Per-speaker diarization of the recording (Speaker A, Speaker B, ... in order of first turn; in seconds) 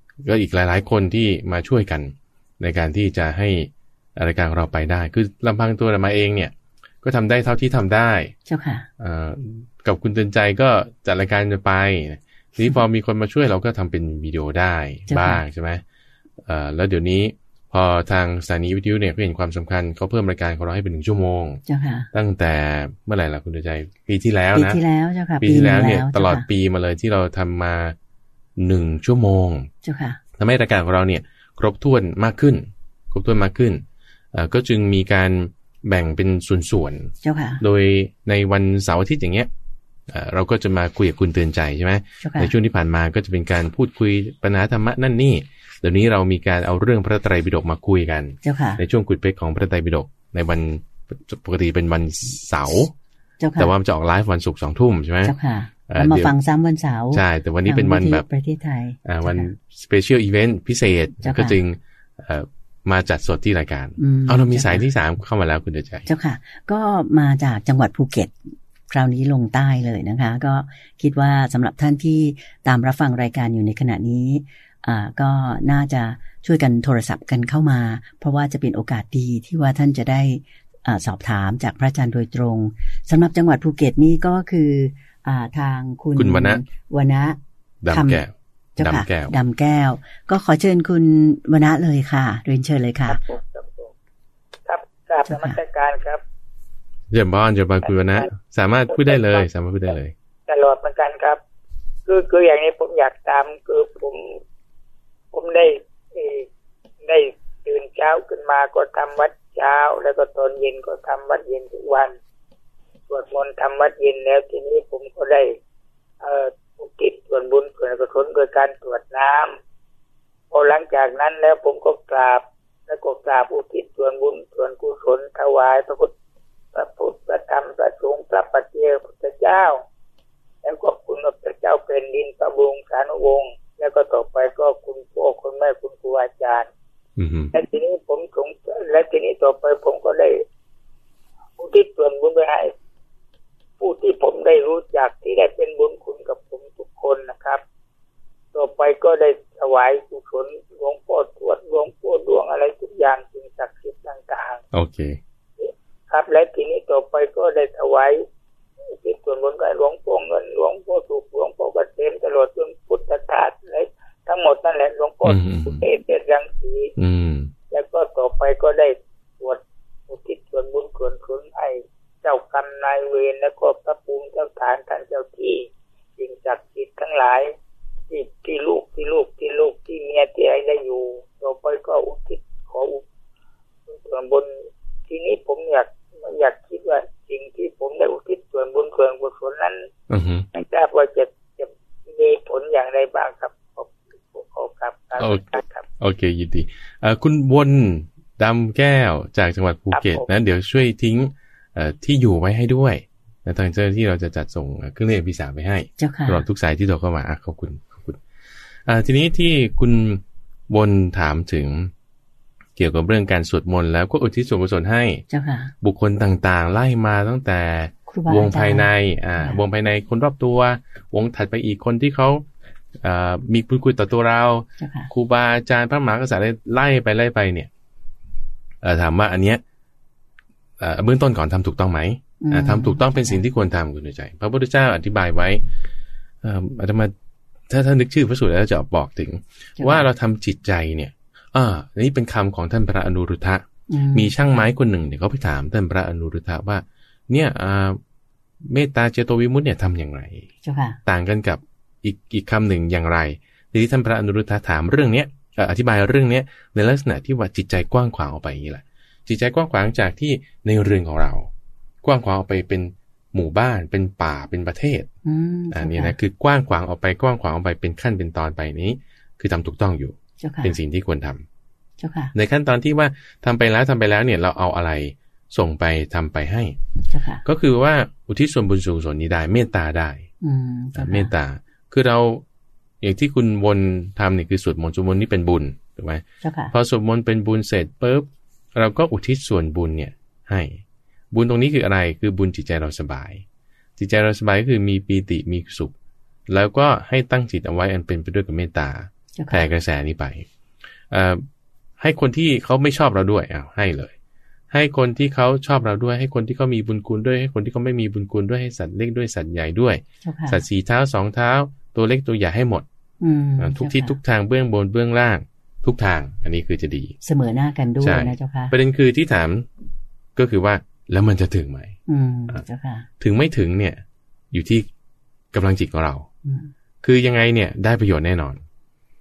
Speaker A: 0.2-8.3, 9.0-15.8, 16.4-21.6, 22.1-24.8, 25.4-27.9, 28.6-29.7, 30.4-33.8, 34.3-39.5, 40.1-52.9, 53.6-55.3, 55.9-56.3, 57.1-58.2, 59.0-66.1, 86.2-86.6, 87.8-89.3, 97.1-100.1, 137.2-137.5, 154.7-155.2, 165.2-165.8, 167.0-167.5, 190.1-190.5, 195.2-195.4, 196.0-208.2, 208.8-211.9, 212.8-215.2, 215.8-222.4, 223.0-227.7, 228.8-229.6, 230.8-235.6, 236.4-237.1, 237.7-248.0, 248.6-250.5, 251.1-261.5, 262.0-265.1, 265.7-271.4, 272.3-276.8, 277.4-280.3, 280.9-282.4, 283.0-290.8, 291.3-293.4, 294.0-295.9, 296.5-300.4, 301.1-301.4, 302.0-304.1, 304.7-312.8, 313.6-317.1, 318.0-319.6, 320.4-321.9, 323.2-324.9, 325.5-326.3, 327.0-328.6
Speaker B: 8.4-8.9, 15.1-15.4, 21.6-22.1, 24.5-26.4, 29.8-30.2, 37.2-37.6, 42.2-42.5, 48.4-48.8, 53.4-53.7, 55.2-59.5, 61.2-61.6, 64.0-64.8, 66.1-68.3, 68.9-87.4, 87.9-88.2, 88.8-93.2, 95.3-95.6, 206.0-206.4, 215.3-215.7, 218.1-219.6, 224.8-225.1, 232.4-233.4, 239.8-240.1, 243.9-244.3, 250.6-251.0, 265.2-266.1, 270.4-270.8, 272.0-272.3, 277.1-277.4, 280.4-281.3, 286.4-286.7, 299.3-299.7, 310.2-310.6, 313.2-314.2, 317.2-318.7, 322.1-323.1, 326.4-326.7
Speaker C: 93.1-93.9, 94.7-96.2, 97.8-98.3, 98.9-99.4, 100.5-101.4, 102.0-104.4, 105.3-106.5, 107.0-112.2, 113.1-115.5, 116.2-119.5, 120.5-126.1, 126.7-129.8, 130.6-136.7, 137.5-140.4, 141.6-142.7, 143.8-147.6, 148.5-154.6, 155.6-158.2, 158.9-166.9, 167.7-175.7, 176.2-177.5, 178.1-183.0, 183.9-184.5, 185.1-189.8, 190.5-195.8, 199.9-200.3